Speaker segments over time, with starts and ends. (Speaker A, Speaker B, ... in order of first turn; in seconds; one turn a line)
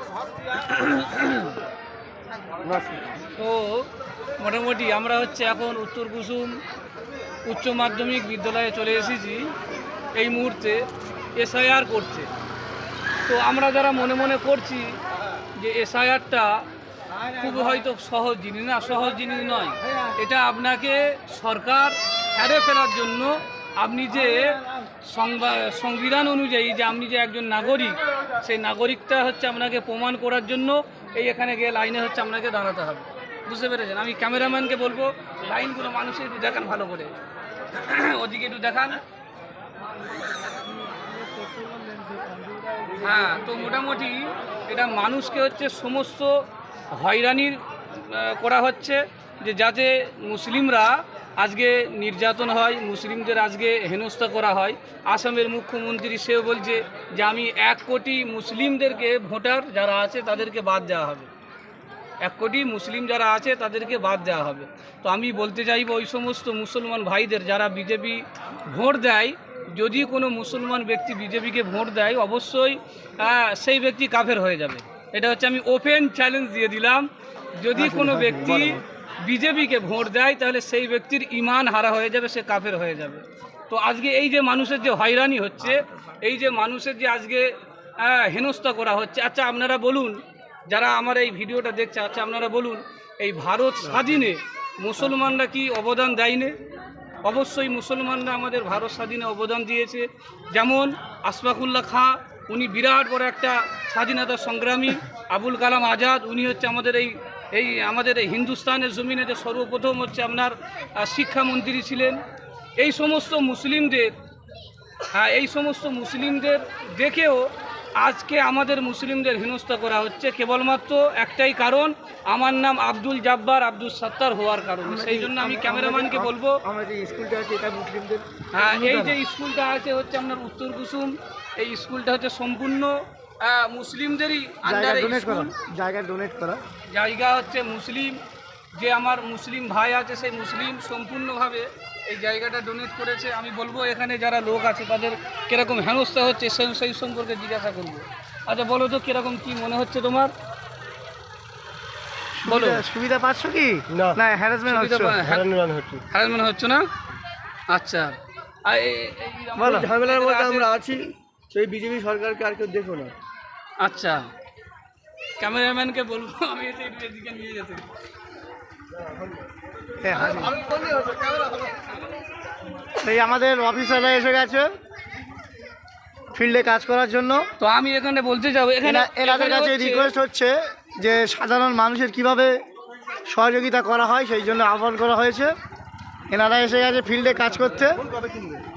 Speaker A: 0.7-1.5
Speaker B: 2.6-3.0
Speaker A: 3.4-6.6
Speaker A: 7.5-9.5
Speaker A: 10.2-10.8
Speaker A: 11.4-12.3
Speaker A: 13.3-15.0
Speaker A: 15.6-16.6
Speaker A: 17.2-37.2
Speaker A: 37.7-39.0
Speaker A: 42.9-61.3
Speaker A: 62.2-96.5
Speaker C: 77.9-78.6
Speaker B: 78.0-78.6
Speaker A: 97.2-112.2
Speaker A: 112.8-114.1
Speaker A: 115.1-126.6
Speaker C: 124.8-129.2
Speaker A: 128.5-135.5
Speaker C: 134.6-136.6
Speaker A: 136.9-138.2
Speaker A: 138.8-150.3
Speaker C: 152.4-155.2
Speaker A: 152.5-152.8
Speaker B: 153.9-154.2
Speaker A: 154.7-155.5
Speaker B: 155.2-156.0
Speaker A: 156.1-156.9
Speaker A: 157.7-160.7
Speaker C: 159.6-159.9
Speaker B: 159.6-163.1
Speaker A: 163.8-164.3
Speaker A: 165.4-167.9
Speaker C: 170.0-170.6
Speaker B: 170.7-171.5
Speaker C: 173.0-174.7
Speaker C: 176.3-177.5
Speaker A: 177.6-180.1
Speaker C: 178.8-182.6
Speaker C: 183.3-185.6
Speaker C: 186.3-188.0